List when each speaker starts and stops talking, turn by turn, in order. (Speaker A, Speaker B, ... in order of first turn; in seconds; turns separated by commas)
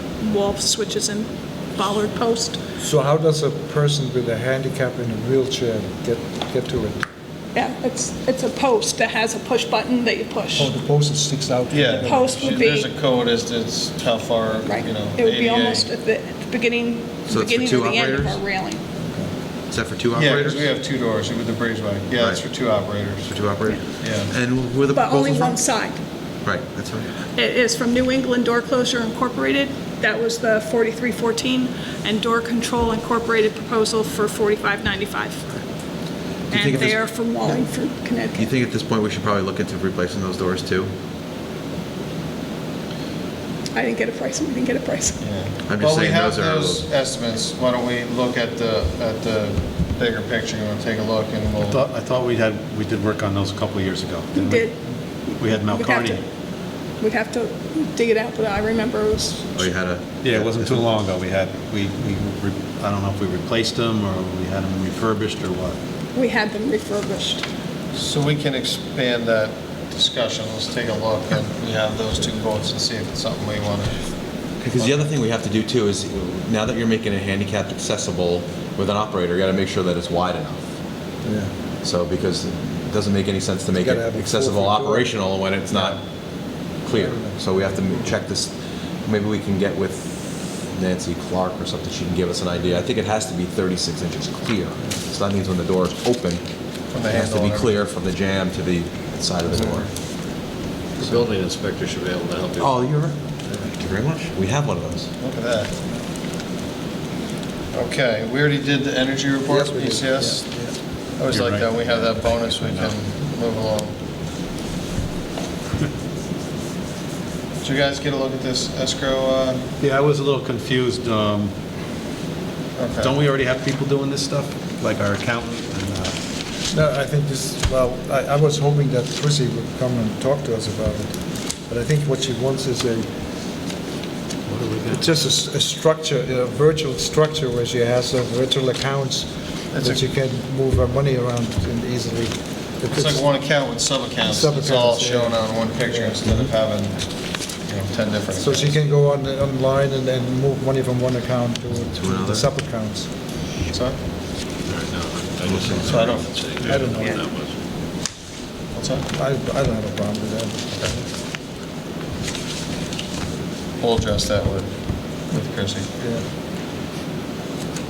Speaker A: 0.2-2.6, Speaker B: 2.8-7.0, Speaker A: 7.5-10.7, Speaker B: 10.6-12.5, Speaker C: 11.7-15.9, Speaker A: 12.0-12.9, Speaker A: 14.6-18.8, Speaker D: 17.3-18.4, Speaker B: 19.0-19.3, Speaker D: 19.7-20.7, Speaker C: 20.1-23.3, Speaker D: 22.2-22.5, Speaker D: 23.1-25.8, Speaker C: 24.0-24.3, Speaker A: 24.9-26.0, Speaker D: 26.4-27.1, Speaker A: 27.4-35.5, Speaker D: 36.5-37.6, Speaker A: 36.5-38.5, Speaker D: 38.3-40.9, Speaker A: 43.7-45.2, Speaker C: 45.2-51.8, Speaker D: 45.7-46.9, Speaker E: 51.6-54.7, Speaker A: 54.3-56.2, Speaker E: 55.4-56.2, Speaker A: 57.0-59.6, Speaker D: 59.5-60.8, Speaker E: 60.2-65.8, Speaker A: 66.1-67.4, Speaker C: 67.9-74.0, Speaker D: 74.6-80.6, Speaker C: 74.8-75.0, Speaker B: 81.2-81.5, Speaker D: 81.8-86.0, Speaker B: 83.7-86.0, Speaker D: 86.8-96.4, Speaker B: 86.9-87.8, Speaker C: 96.9-97.7, Speaker D: 97.0-99.9, Speaker C: 99.5-99.8, Speaker F: 101.0-102.8, Speaker D: 102.6-105.1, Speaker C: 105.2-105.7, Speaker C: 107.7-110.5, Speaker B: 109.5-110.7, Speaker C: 111.2-114.0, Speaker E: 111.3-112.9, Speaker C: 117.6-119.6, Speaker E: 119.8-121.5, Speaker C: 122.8-123.2, Speaker E: 123.0-126.2, Speaker B: 126.7-133.1, Speaker E: 134.5-135.1, Speaker B: 134.9-143.4, Speaker C: 139.7-140.0, Speaker C: 142.9-147.1, Speaker B: 144.2-146.4, Speaker C: 147.6-148.8, Speaker B: 148.4-153.1, Speaker D: 151.9-152.5, Speaker C: 153.7-154.0, Speaker F: 154.7-157.5, Speaker D: 155.4-155.8, Speaker C: 155.8-156.3, Speaker B: 156.6-157.3, Speaker C: 158.7-159.1, Speaker B: 159.1-161.0, Speaker C: 160.7-161.0, Speaker C: 163.8-164.7, Speaker C: 165.3-165.9